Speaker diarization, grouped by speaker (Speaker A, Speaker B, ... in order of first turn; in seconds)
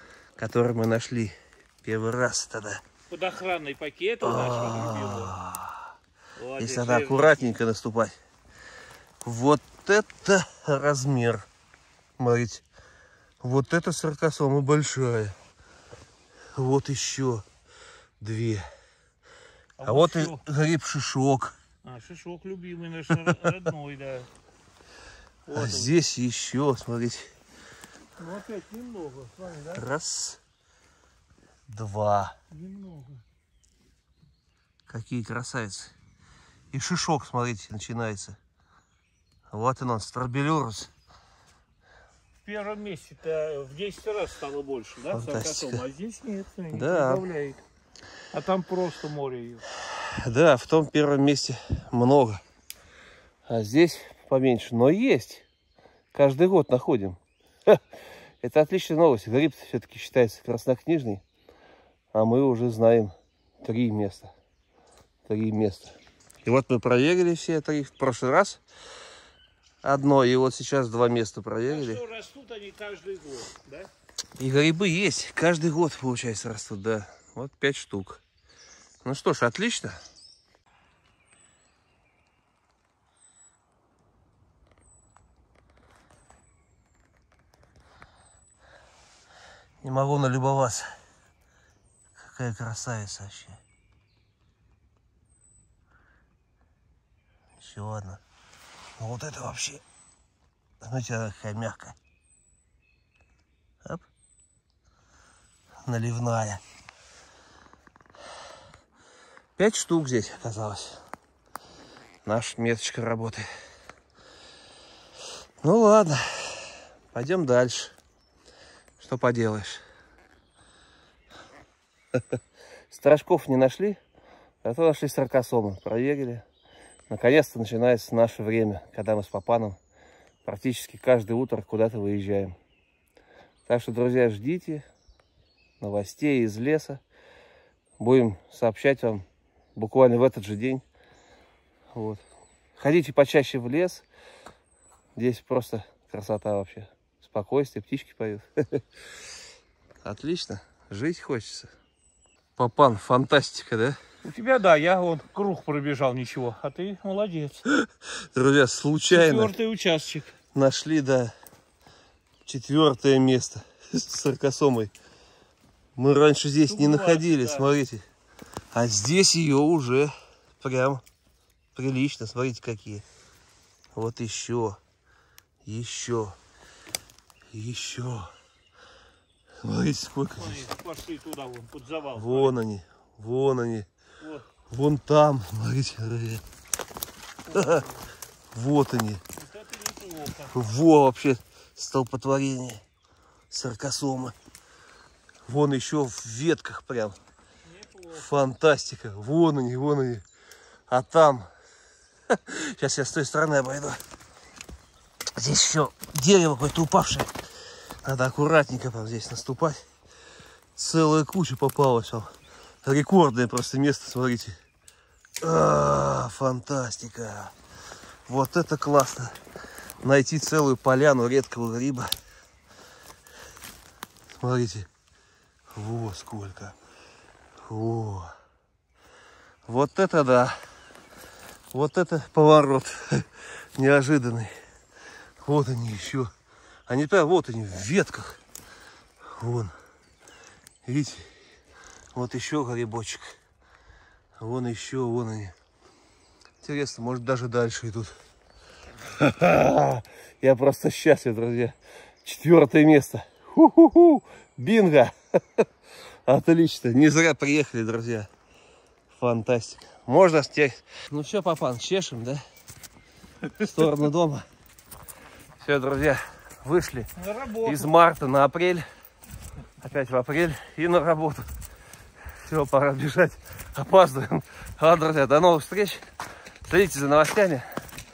Speaker A: 0.4-2.8, 4.2-5.8, 6.6-8.1, 9.2-11.4, 12.2-12.6, 13.4-15.3, 16.5-17.4, 18.2-18.6, 19.8-21.5, 25.5-27.3, 29.7-30.4, 31.7-32.3, 34.9-35.9, 36.7-38.4, 39.5-40.9, 45.1-45.8, 46.7-47.2, 50.0-52.4, 53.5-55.4, 56.1-57.8, 58.4-61.2, 62.1-64.3, 65.3-68.6, 69.8-72.0, 74.4-78.2, 79.0-80.0, 89.8-90.8, 92.2-93.6, 97.6-98.2, 99.0-99.8, 100.8-102.0, 105.8-106.6, 109.6-111.0, 112.2-113.5, 115.6-117.9, 119.0-119.8, 122.9-124.0, 124.6-126.4, 127.1-129.8, 130.4-132.6, 133.7-134.8, 135.8-137.0, 138.0-139.2, 139.8-140.8, 141.9-142.2, 142.8-144.0, 145.2-148.8, 150.0-151.7, 152.6-154.0, 157.7-159.5, 160.5-161.3, 162.4-164.9, 165.9-168.0, 168.7-171.0, 171.7-173.0, 173.9-174.8, 175.6-176.4, 177.5-178.3, 179.6-180.6, 182.2-183.8, 184.7-186.4, 187.5-187.8, 188.5-189.2, 190.5-192.8, 193.5-194.3, 195.4-197.2, 198.1-200.2, 200.9-201.5, 202.3-204.0, 205.4-207.3, 208.0-209.8, 210.8-212.3, 212.8-214.5, 215.4-217.5, 218.3-219.3, 220.0-222.1, 224.3-224.9, 225.7-226.7, 227.7-228.3, 229.7-230.6, 231.7-234.5, 235.4-236.3, 236.9-238.4, 239.4-239.7, 240.8-241.3, 242.1-243.3, 244.4-245.5, 246.6-248.1, 249.1-255.6, 256.3-258.3, 259.1-262.4, 263.5-264.4, 265.6-267.1, 267.6-268.8, 269.8-271.4, 272.3-276.0, 276.6-277.6
Speaker B: 3.1-5.3, 6.3-7.5, 19.8-20.4, 21.8-24.3, 25.4-25.9, 28.2-29.8, 32.5-33.2, 42.4-47.6, 48.3-49.6, 71.6-73.9, 154.2-157.6, 159.1-160.3, 166.6-167.7, 180.4-182.5, 184.2-184.4, 187.4-188.1, 189.4-190.6, 197.7-198.3, 267.1-267.9